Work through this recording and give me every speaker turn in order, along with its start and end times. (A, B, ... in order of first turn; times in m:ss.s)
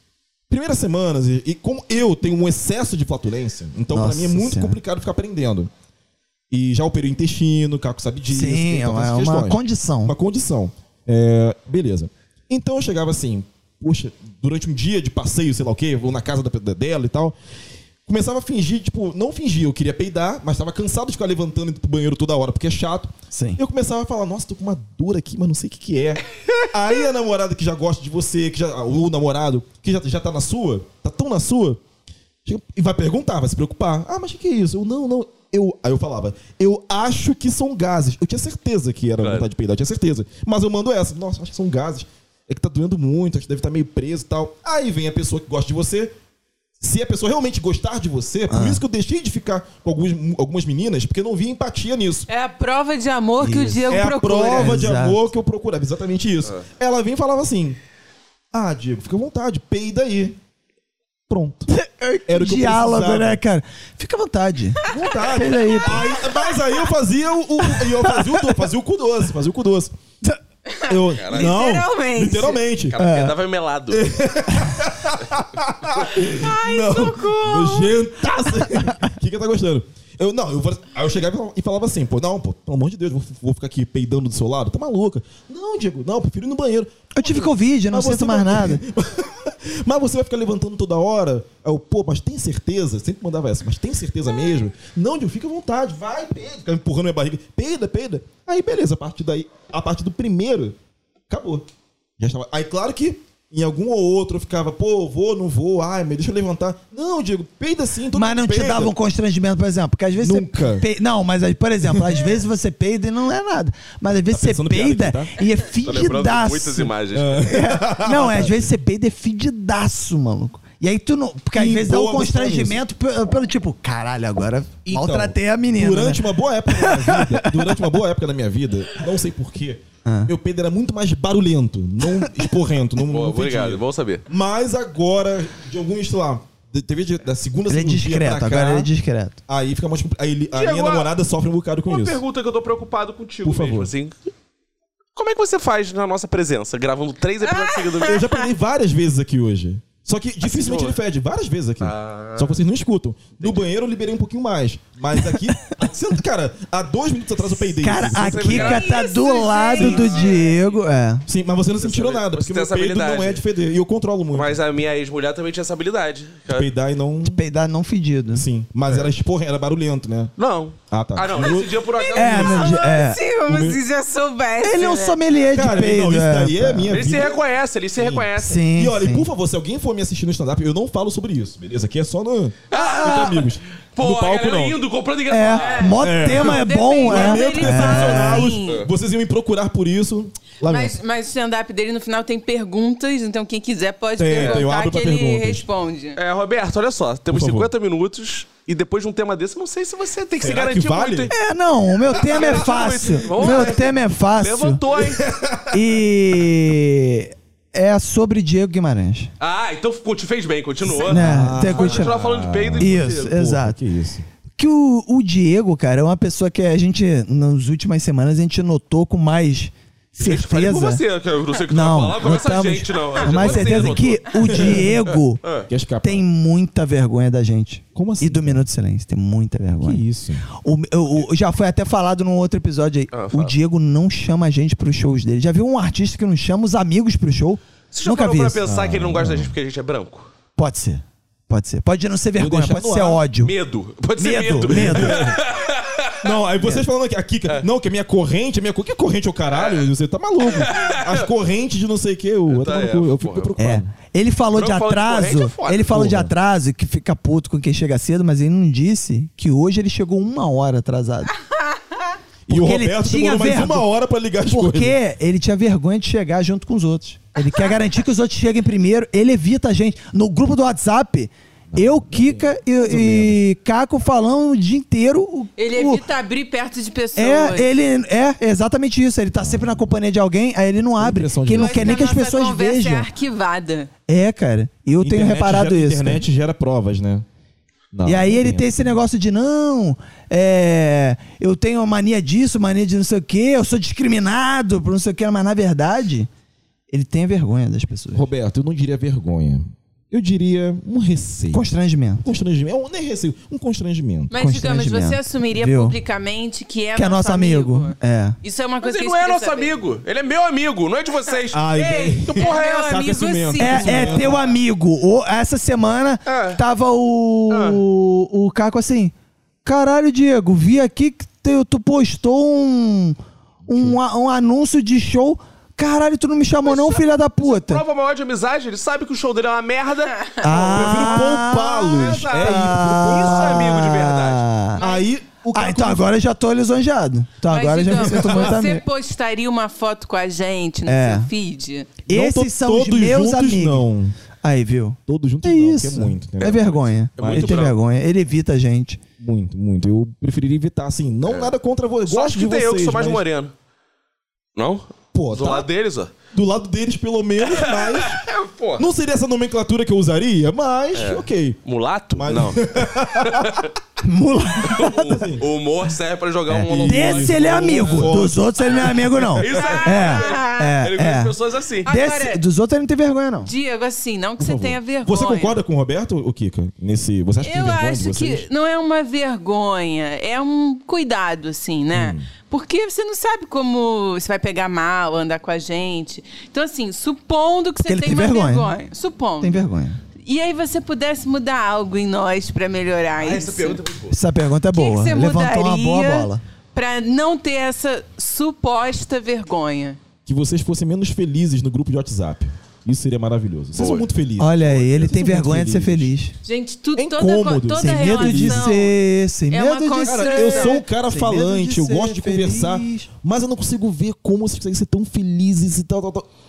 0:00.5-0:05.7 A
0:03.9-0:04.8 B
0:06.5-0:17.4 A
0:08.3-0:10.1 B
0:18.0-0:31.8 A
0:23.3-0:23.6 B
0:32.4-0:46.1 A
0:39.2-0:39.5 C
0:46.8-0:52.3 A
0:48.5-0:48.8 B
0:52.3-0:54.8 D
0:53.4-0:53.9 B
0:53.9-0:57.8 A
0:54.5-0:55.2 B
0:58.5-1:00.4 A
1:01.3-1:01.7 A
1:01.7-1:06.1 B
1:02.3-1:03.4 A
1:04.9-1:09.9 A
1:05.6-1:06.6 D
1:08.1-1:08.5 B
1:10.7-1:12.6 D
1:10.8-1:13.0 A
1:11.1-1:11.6 C
1:12.9-1:14.0 C
1:13.0-1:13.4 B
1:13.9-1:40.8 A
1:16.1-1:18.0 D
1:18.7-1:19.0 B
1:27.1-1:28.8 B
1:41.3-1:41.6 A
1:42.2-1:48.9 A
1:48.1-2:07.9 B
1:50.2-1:50.9 A
1:51.9-1:52.3 A
1:54.3-1:55.3 A
1:55.8-1:57.5 C
1:57.1-1:58.7 A
2:01.6-2:02.8 A
2:04.8-2:18.9 A
2:10.0-2:10.3 B
2:13.1-2:14.2 C
2:17.7-2:19.4 B
2:19.5-2:22.2 A
2:20.5-2:21.1 C
2:21.9-2:24.2 C
2:23.4-2:23.9 A
2:25.2-2:28.2 C
2:27.5-2:28.4 D
2:28.0-2:38.8 A
2:30.4-2:31.0 C
2:31.8-2:32.6 C
2:33.4-2:33.7 C
2:35.2-2:35.5 B
2:37.6-2:41.3 B
2:38.0-2:38.9 C
2:38.5-2:40.6 D
2:39.8-2:40.1 A
2:39.8-2:40.4 C
2:41.3-2:44.6 A
2:41.8-2:43.4 C
2:44.3-2:46.7 C
2:46.5-2:47.4 A
2:47.2-2:48.5 B
2:48.3-2:50.3 A
2:50.4-2:52.8 C
2:50.9-2:52.4 A
2:51.9-2:55.2 D
2:52.1-2:53.2 B
2:53.4-2:53.8 A
2:54.6-2:57.0 B
2:55.5-2:57.4 A
2:56.9-2:58.6 C
2:58.0-3:04.8 A
2:58.4-2:59.3 B
3:02.7-3:06.0 C
3:02.7-3:03.3 D
3:05.3-3:08.6 B
3:05.6-3:08.8 D
3:06.0-3:11.0 A
3:10.6-3:16.2 D
3:14.2-3:15.6 A
3:14.3-3:14.7 C
3:16.1-3:21.3 C
3:17.3-3:17.7 A
3:20.4-3:21.3 A
3:21.3-3:24.8 B
3:22.1-3:25.2 C
3:22.4-3:22.6 A
3:23.3-3:23.7 A
3:24.9-3:25.8 A
3:25.7-3:29.3 B
3:29.4-3:33.3 C
3:31.0-3:34.2 A
3:31.0-3:32.2 B
3:32.8-3:33.8 B
3:34.6-3:41.0 B
3:40.2-3:45.7 C
3:41.7-3:45.4 B
3:43.3-3:43.9 A
3:44.5-3:44.9 A
3:45.7-3:46.2 A
3:46.0-3:58.6 B
3:47.9-3:48.6 A
3:49.8-3:50.4 A
3:53.1-3:53.6 C
3:57.9-4:00.3 C
3:58.6-3:59.5 A
4:00.6-4:03.5 B
4:02.4-4:03.2 A
4:03.4-4:06.2 C
4:04.2-4:05.3 B
4:04.4-4:05.4 A
4:06.2-4:13.9 A
4:06.6-4:06.9 B
4:09.5-4:09.9 C
4:10.4-4:11.3 C
4:12.5-4:13.6 C
4:13.6-4:21.3 B
4:14.5-4:15.9 C
4:15.8-4:16.3 A
4:22.5-4:25.0 A
4:22.5-4:23.9 B
4:24.4-4:36.0 B
4:31.7-4:33.4 A
4:35.6-4:37.7 D
4:37.1-4:43.1 B
4:39.4-4:39.8 A
4:41.0-4:42.0 A
4:41.5-4:43.9 D
4:44.1-4:46.2 B
4:45.0-4:47.3 A
4:47.9-4:48.9 A
4:48.0-4:56.3 B
4:56.9-4:58.3 B
4:58.1-5:01.6 A
5:01.5-5:02.2 B
5:02.2-5:04.3 A
5:04.3-5:09.7 D
5:04.3-5:06.0 B
5:06.9-5:08.4 B
5:08.8-5:11.6 C
5:11.5-5:14.6 A
5:11.7-5:14.3 D
5:12.2-5:13.0 C
5:13.6-5:23.2 B
5:16.3-5:16.6 C
5:17.5-5:17.8 C
5:23.7-5:23.9 A
5:23.7-5:27.8 B
5:26.6-5:34.4 C
5:30.4-5:34.8 B
5:30.7-5:33.6 A
5:34.8-5:35.1 D
5:34.8-5:36.1 A
5:35.5-5:38.8 B
5:37.5-5:42.0 D
5:40.9-5:41.3 B
5:42.0-5:43.8 B
5:42.1-5:44.2 A
5:44.4-5:49.0 B
5:45.1-5:47.6 A
5:47.2-5:47.7 C
5:49.2-5:53.2 A
5:51.3-5:51.5 C
5:52.1-5:53.5 C
5:54.6-5:56.1 C
5:55.1-5:55.7 A
5:56.3-6:01.6 A
5:57.5-5:58.8 C
6:00.9-6:03.7 C
6:02.1-6:03.7 A
6:04.0-6:05.3 B
6:04.6-6:11.9 C
6:05.1-6:05.5 A
6:06.5-6:11.3 B
6:06.6-6:09.2 A
6:09.4-6:10.8 D
6:11.8-6:12.4 D
6:11.9-6:13.5 B
6:13.4-6:15.6 D
6:14.4-6:18.5 A
6:17.4-6:29.6 D
6:21.9-6:22.3 A
6:27.9-6:28.7 B
6:29.4-6:30.0 B
6:30.2-6:33.8 D
6:33.2-6:34.2 C
6:34.1-6:36.4 B
6:34.7-6:40.0 D
6:40.3-6:46.1 A
6:43.7-6:44.1 C
6:44.4-6:46.3 B
6:46.4-6:48.9 D
6:47.0-6:48.6 A
6:47.8-6:53.1 B
6:49.5-6:50.8 D
6:50.0-6:56.3 A